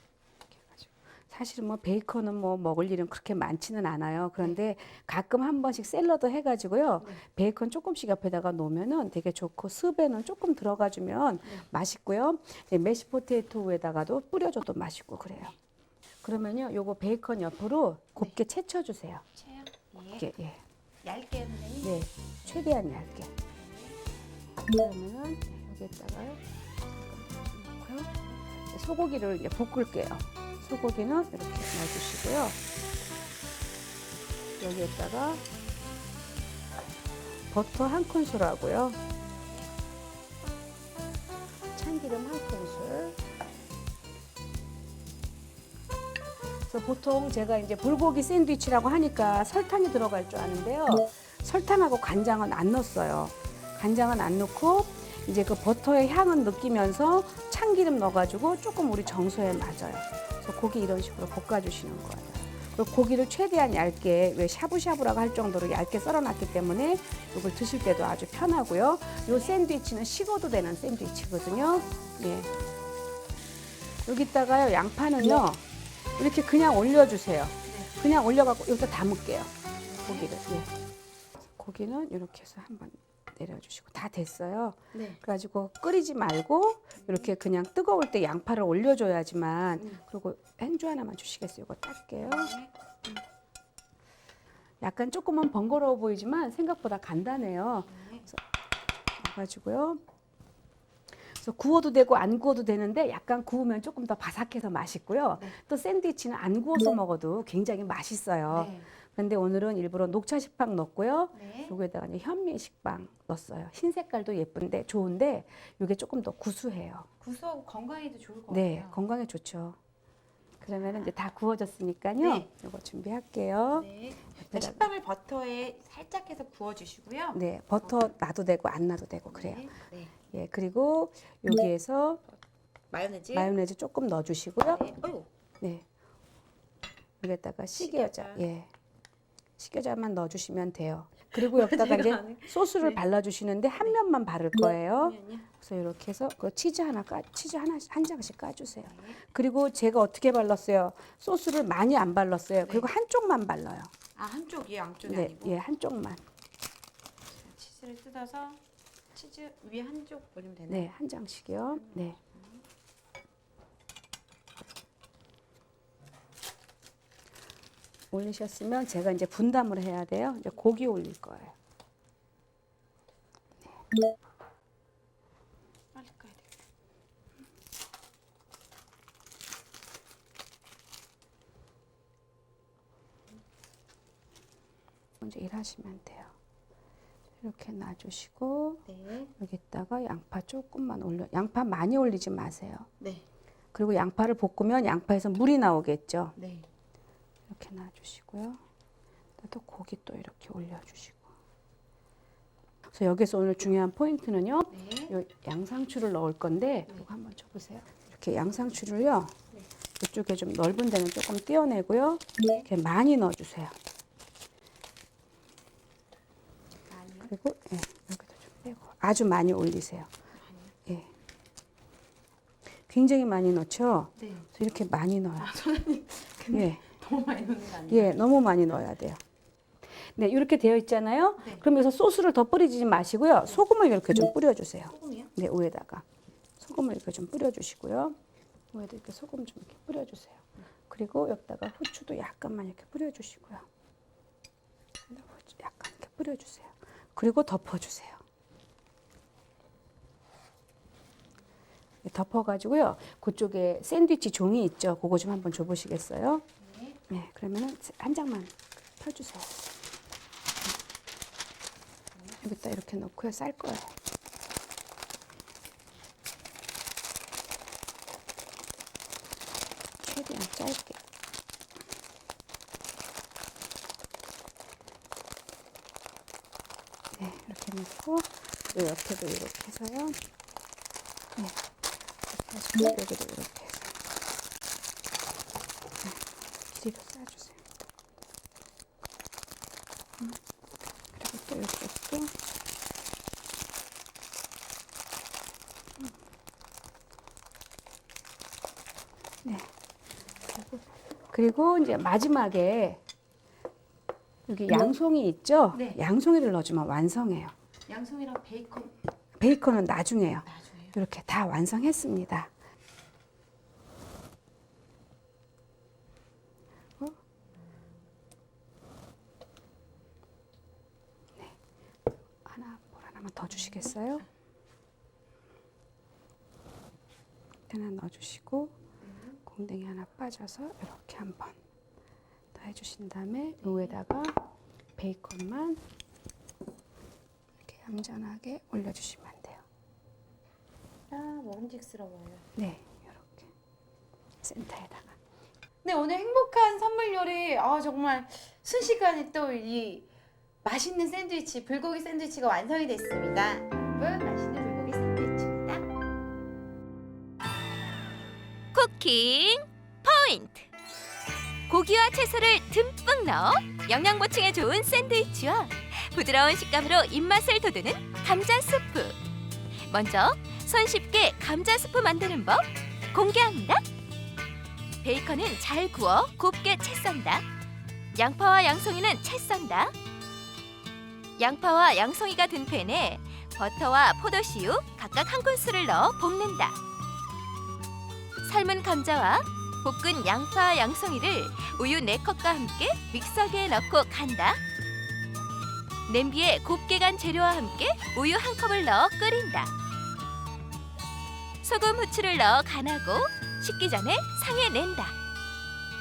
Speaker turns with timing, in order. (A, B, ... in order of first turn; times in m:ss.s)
0:00.7-0:15.5 A
0:16.2-0:19.2 A
0:19.4-0:20.3 B
0:20.2-0:20.6 A
0:21.0-0:22.6 B
0:21.8-0:23.3 A
0:23.4-0:24.0 B
0:24.6-0:26.4 A
0:27.0-0:28.1 A
0:28.7-0:32.6 A
0:34.6-0:35.4 A
0:37.5-0:39.0 A
0:39.2-0:39.7 B
0:41.8-0:43.2 A
0:46.7-1:12.5 A
1:09.3-1:09.6 B
1:14.1-1:15.6 A
1:16.2-1:19.5 A
1:19.9-1:20.3 B
1:20.0-1:20.7 A
1:21.6-1:32.5 A
1:24.9-1:25.2 B
1:32.2-1:32.7 B
1:34.8-1:38.4 A
1:37.9-1:38.3 B
1:39.2-1:40.0 A
1:41.3-1:57.1 A
1:48.5-1:48.9 B
1:51.3-1:51.7 B
1:57.2-1:59.0 B
1:58.5-1:59.8 A
2:00.6-2:04.9 A
2:00.8-2:01.1 B
2:02.2-2:02.5 B
2:03.7-2:08.0 B
2:07.3-2:09.6 A
2:09.3-2:10.1 B
2:10.3-2:12.2 A
2:12.9-2:13.5 B
2:13.3-2:14.9 A
2:14.7-2:15.3 B
2:17.2-2:18.7 A
2:17.8-2:18.4 B
2:19.6-2:33.9 A
2:21.4-2:23.0 B
2:24.9-2:25.5 B
2:28.8-2:29.2 B
2:34.2-2:35.6 B
2:35.0-2:36.2 A
2:37.3-2:38.6 B
2:39.1-2:40.9 B
2:40.7-2:42.2 A
2:41.8-2:42.6 B
2:48.1-2:51.5 A
2:55.9-2:56.5 B
3:05.2-3:06.3 A
3:07.4-3:08.8 A
3:08.9-3:09.3 B
3:09.4-3:12.9 A
3:13.0-3:13.2 B
3:13.7-3:16.4 A
3:16.4-3:16.7 B
3:17.5-3:18.6 A
3:19.4-3:21.3 A
3:22.9-3:29.3 A
3:24.7-3:25.1 B
3:30.0-3:33.8 A
3:32.4-3:32.7 B
3:36.9-3:37.3 B
3:37.2-3:40.1 A
3:40.4-3:40.7 B
3:42.9-3:45.5 A
3:44.2-3:44.5 B
3:45.4-3:48.2 B
3:46.5-3:46.8 A
3:47.9-3:49.2 A
3:50.2-3:56.0 A
3:51.4-3:51.7 B
3:54.9-3:55.3 B
3:56.6-3:58.2 A
3:58.7-4:03.7 A
4:05.1-4:08.2 A
4:12.0-4:16.4 A
4:16.6-4:17.0 B
4:17.1-4:19.7 A
4:22.4-4:23.9 A
4:30.0-4:31.0 A
4:37.2-4:40.2 A
4:42.3-4:44.0 A
4:46.0-4:47.6 A
4:51.1-4:52.3 A
4:59.4-4:59.7 A
5:00.5-5:03.0 A
5:04.5-5:07.5 A
5:05.7-5:06.0 B
5:07.9-5:09.0 B
5:09.4-5:12.5 A
5:10.5-5:11.0 B
5:22.4-5:24.2 A
5:27.7-5:28.8 A
5:29.0-5:29.4 B
5:29.4-5:31.6 A
5:32.6-5:34.4 A
5:33.6-5:33.9 B
5:35.0-5:35.8 A
5:37.6-5:39.6 A
5:41.1-5:42.4 B
5:42.6-5:43.5 A
5:44.4-5:45.2 A
5:45.8-5:50.1 B
5:50.6-5:55.9 B
5:58.7-6:00.7 C
6:01.7-6:09.2 C
6:09.9-6:13.8 C
6:15.0-6:17.4 C
6:18.2-6:19.9 C
6:21.4-6:26.8 C
6:28.4-6:34.6 C
6:36.1-6:39.7 C
6:41.6-6:45.1 C